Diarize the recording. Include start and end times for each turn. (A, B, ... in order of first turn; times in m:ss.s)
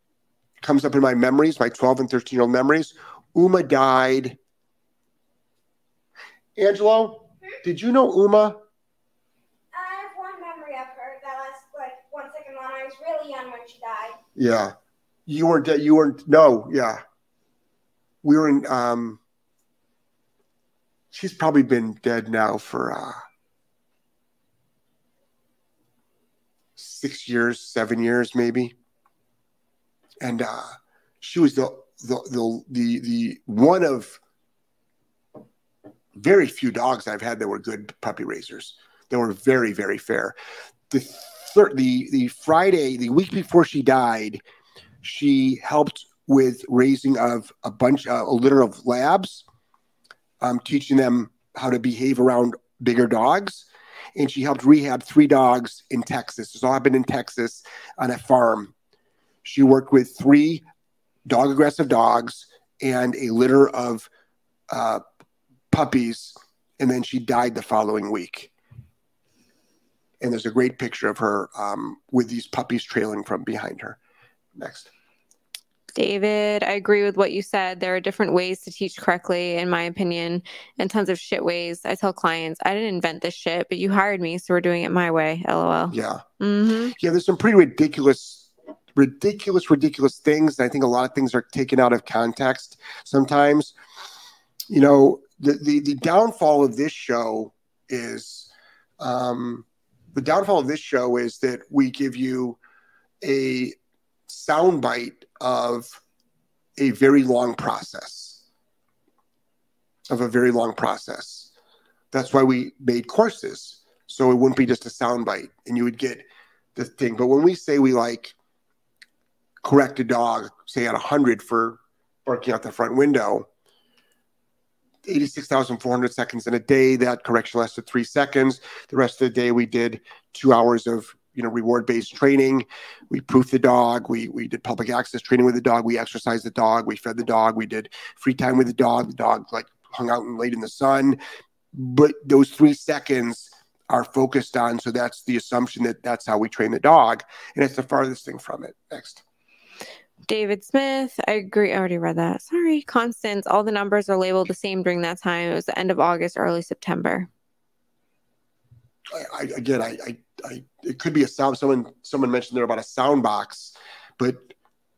0:00.6-0:04.4 A
0:06.6-0:08.6 A
0:09.7-0:14.2 B
0:14.3-0:14.7 A
0:15.2-0:17.0 A
0:18.2-0:19.2 A
0:21.1-0:23.2 A
0:26.8-0:28.7 A
0:30.2-0:34.2 A
0:36.1-0:40.3 A
0:40.9-0:44.4 A
0:45.0-0:49.4 A
0:50.4-0:58.7 A
0:59.4-1:00.6 A
1:01.2-1:04.1 A
1:04.7-1:05.0 A
1:05.7-1:08.5 A
1:10.2-1:14.0 A
1:14.6-1:14.9 A
1:15.9-1:26.9 C
1:25.9-1:26.2 A
1:26.9-1:33.7 A
1:34.7-1:42.6 A
1:43.2-1:46.0 A
1:46.8-1:48.4 A
1:50.1-1:51.5 A
1:52.1-1:58.3 A
1:59.6-2:03.5 A
2:05.0-2:21.2 A
2:21.7-2:29.2 A
2:30.3-2:37.3 C
2:39.1-2:44.5 A